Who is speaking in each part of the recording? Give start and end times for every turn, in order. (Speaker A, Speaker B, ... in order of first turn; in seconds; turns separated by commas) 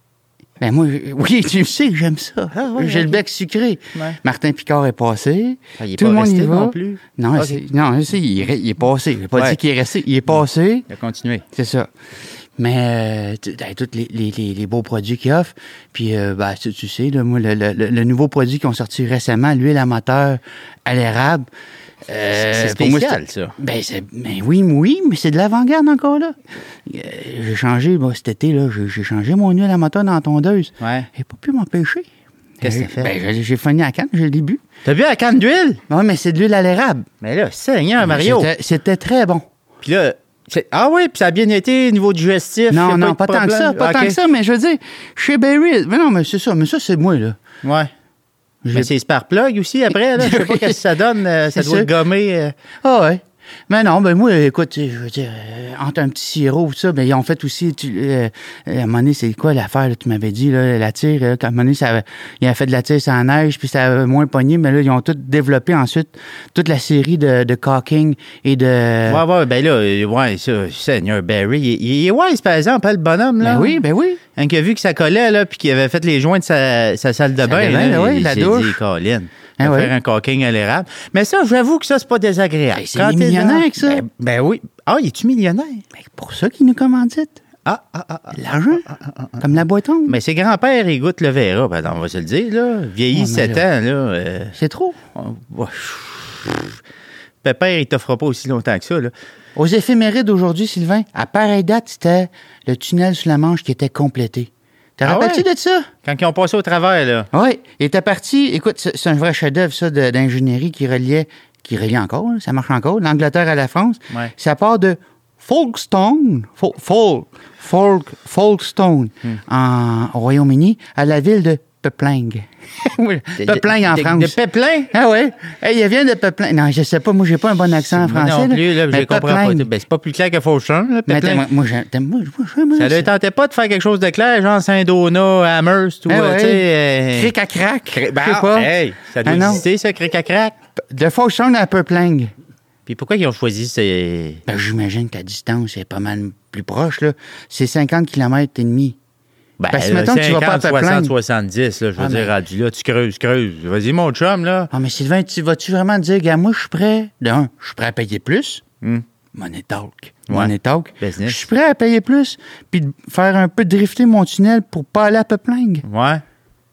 Speaker A: 0.6-10.9, Speaker B: 2.5-3.2, Speaker B: 5.8-7.6, Speaker B: 9.3-9.6, Speaker B: 10.9-11.4, Speaker A: 11.5-11.9, Speaker A: 12.6-21.4, Speaker A: 22.1-32.1, Speaker B: 22.3-23.5, Speaker B: 30.8-31.1, Speaker A: 32.6-34.6, Speaker B: 32.6-33.1, Speaker B: 34.8-35.8, Speaker A: 35.9-37.1, Speaker B: 37.2-38.5, Speaker A: 38.0-39.5, Speaker B: 39.8-44.2, Speaker A: 42.7-47.4, Speaker B: 47.6-47.9, Speaker A: 48.6-48.9, Speaker B: 48.7-52.5, Speaker A: 50.1-50.8, Speaker A: 51.5-51.9, Speaker A: 52.8-69.2, Speaker B: 69.0-73.8, Speaker A: 73.4-74.2, Speaker B: 74.3-85.8, Speaker A: 77.4-78.8, Speaker A: 79.6-79.9, Speaker A: 82.7-84.0, Speaker A: 85.9-87.4, Speaker B: 87.6-89.5, Speaker A: 88.3-90.2, Speaker B: 90.1-94.5, Speaker A: 93.1-93.6, Speaker A: 94.5-95.0, Speaker B: 95.1-96.8, Speaker B: 97.4-99.1, Speaker A: 99.5-105.9, Speaker B: 105.0-105.5, Speaker B: 106.0-107.3, Speaker A: 107.3-124.3, Speaker B: 123.4-124.9, Speaker A: 124.9-129.7, Speaker B: 127.8-131.4, Speaker A: 131.1-133.1, Speaker B: 132.8-137.3, Speaker A: 136.1-138.7, Speaker B: 137.9-140.5, Speaker A: 139.2-139.6, Speaker A: 140.9-142.3, Speaker B: 142.9-144.4, Speaker A: 144.5-149.0, Speaker B: 149.6-154.7, Speaker A: 149.7-151.1, Speaker A: 152.0-152.3, Speaker A: 154.7-158.6, Speaker A: 159.3-165.8, Speaker B: 160.3-161.4, Speaker B: 165.8-166.2